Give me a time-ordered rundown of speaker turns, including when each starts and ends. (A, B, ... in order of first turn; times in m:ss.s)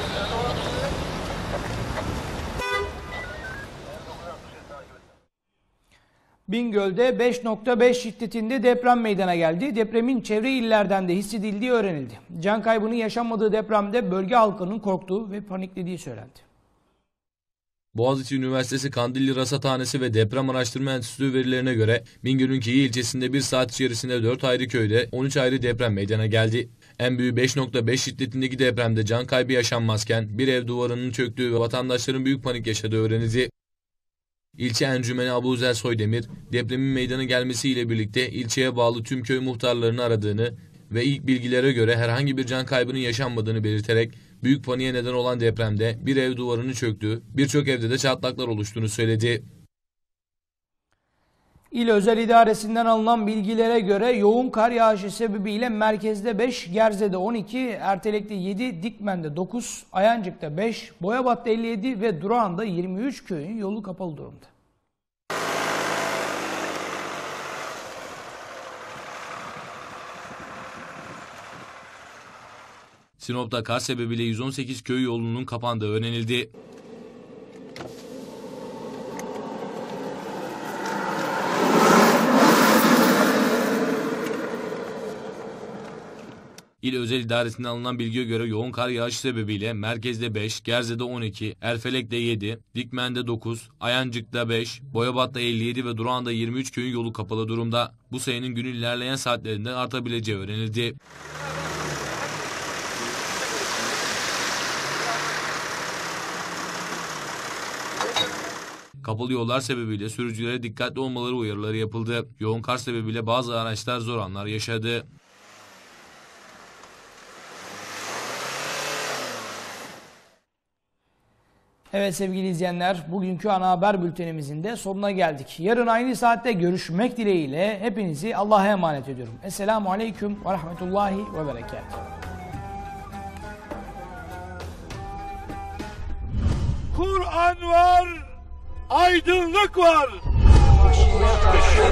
0:06.5-0:16.4 A
0:17.9-0:33.5 B
0:34.6-0:49.4 B
0:51.7-1:04.5 A
1:13.2-1:16.5 B
1:26.8-1:41.0 B
1:49.0-1:55.0 B
2:01.9-2:11.9 A
2:16.9-2:18.2 C
2:18.9-2:20.2 C